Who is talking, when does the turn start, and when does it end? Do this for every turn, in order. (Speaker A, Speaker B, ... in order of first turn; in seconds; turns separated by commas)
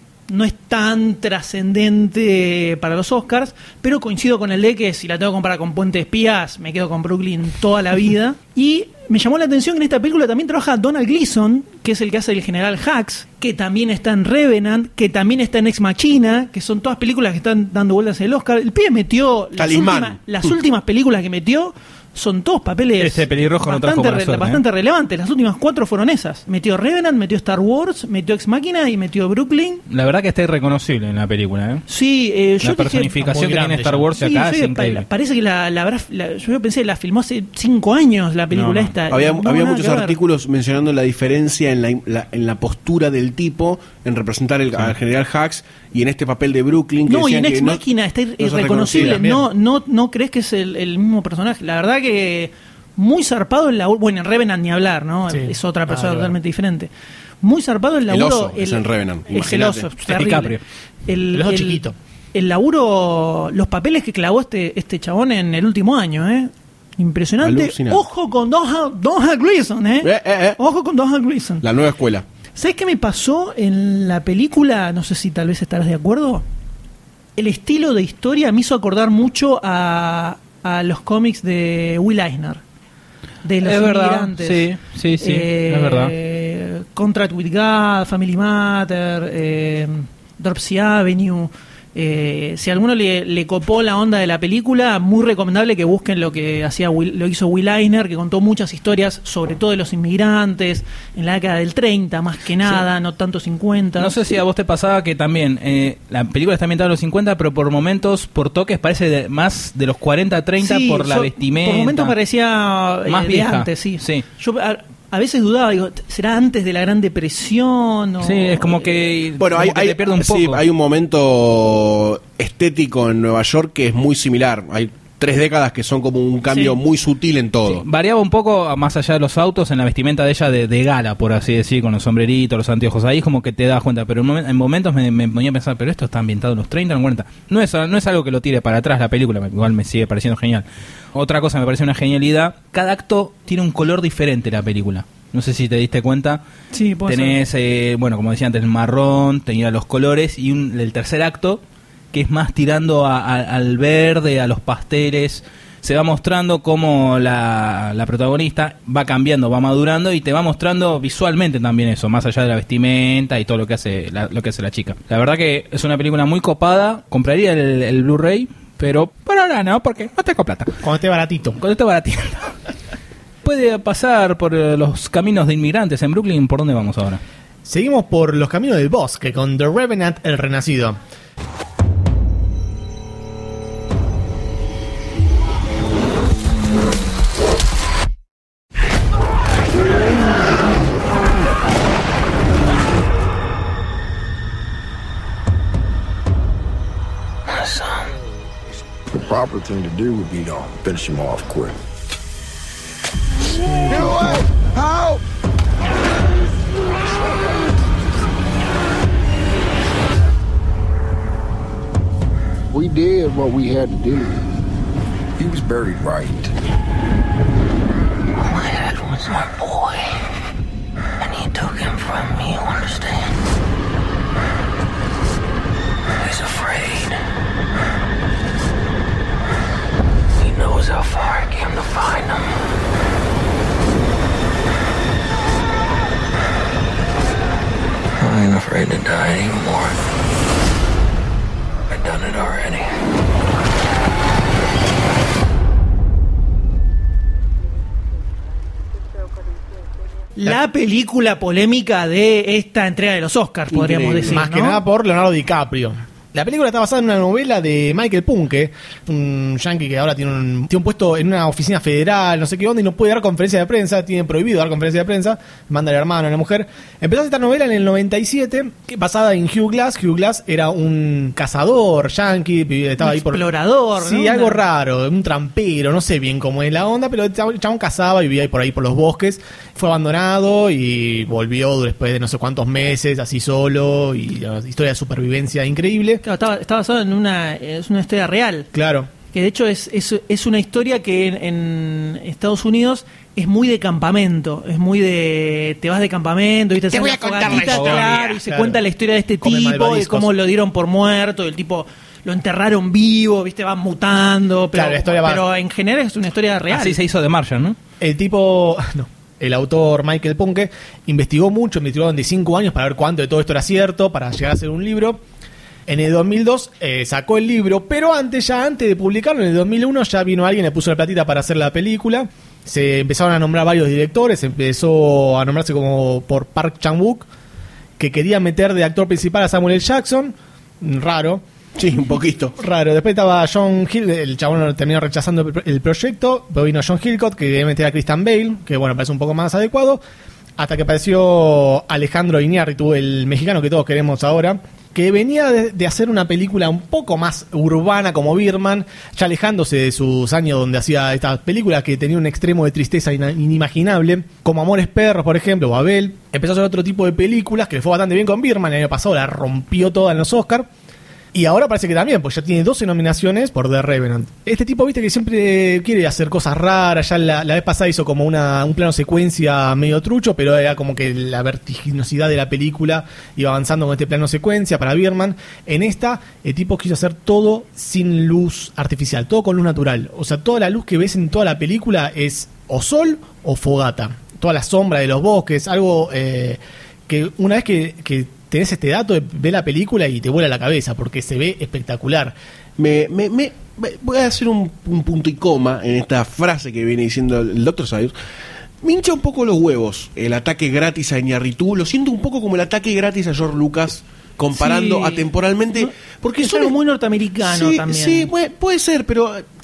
Speaker A: 0.3-29.8, Speaker B: 19.6-20.2, Speaker C: 23.0-24.6, Speaker C: 29.9-31.9, Speaker A: 31.9-33.1, Speaker C: 32.6-35.0, Speaker D: 33.2-34.1, Speaker A: 34.1-40.2, Speaker C: 38.5-38.9, Speaker B: 39.1-47.8, Speaker A: 47.1-56.9, Speaker B: 48.4-49.2, Speaker D: 48.9-49.5, Speaker D: 55.3-56.4, Speaker A: 57.4-61.8, Speaker B: 58.1-59.9, Speaker C: 60.1-60.6, Speaker D: 61.3-62.0, Speaker A: 62.3-71.7, Speaker B: 67.4-68.0, Speaker B: 70.0-70.6, Speaker B: 71.6-72.2, Speaker A: 72.6-76.4, Speaker A: 77.4-82.6, Speaker A: 83.4-84.7, Speaker C: 83.6-86.1, Speaker A: 85.2-104.1, Speaker C: 104.0-112.2, Speaker A: 110.6-118.8, Speaker C: 113.1-114.2, Speaker C: 118.2-120.6, Speaker B: 119.4-127.8, Speaker A: 126.5-126.8, Speaker C: 127.7-146.4, Speaker A: 146.7-147.4, Speaker C: 147.1-151.6, Speaker C: 152.1-170.7, Speaker D: 170.8-171.6, Speaker C: 171.6-172.5, Speaker C: 173.4-177.2, Speaker D: 177.7-181.0, Speaker E: 197.6-197.9, Speaker F: 199.1-201.8, Speaker F: 203.8-205.2, Speaker F: 212.7-214.5, Speaker F: 215.4-216.5, Speaker E: 218.5-220.0, Speaker E: 221.2-223.2, Speaker E: 226.2-227.1, Speaker E: 230.4-232.5, Speaker E: 238.2-240.0, Speaker E: 241.9-242.9, Speaker A: 250.4-254.8, Speaker B: 253.7-254.4, Speaker D: 254.3-273.4, Speaker A: 273.0-274.6, Speaker D: 274.0-286.2, Speaker A: 286.2-288.7, Speaker D: 288.7-289.1, Speaker A: 289.3-307.0, Speaker D: 297.2-298.8, Speaker D: 299.4-300.3, Speaker D: 304.7-305.4, Speaker C: 306.7-307.8, Speaker D: 308.0-315.2, Speaker D: 315.9-327.3, Speaker D: 328.0-331.4, Speaker B: 331.8-332.6, Speaker D: 332.6-340.0, Speaker D: 340.6-360.7, Speaker D: 361.3-392.4, Speaker B: 392.8-398.1, Speaker B: 398.8-406.8, Speaker A: 404.5-408.3, Speaker B: 407.4-409.4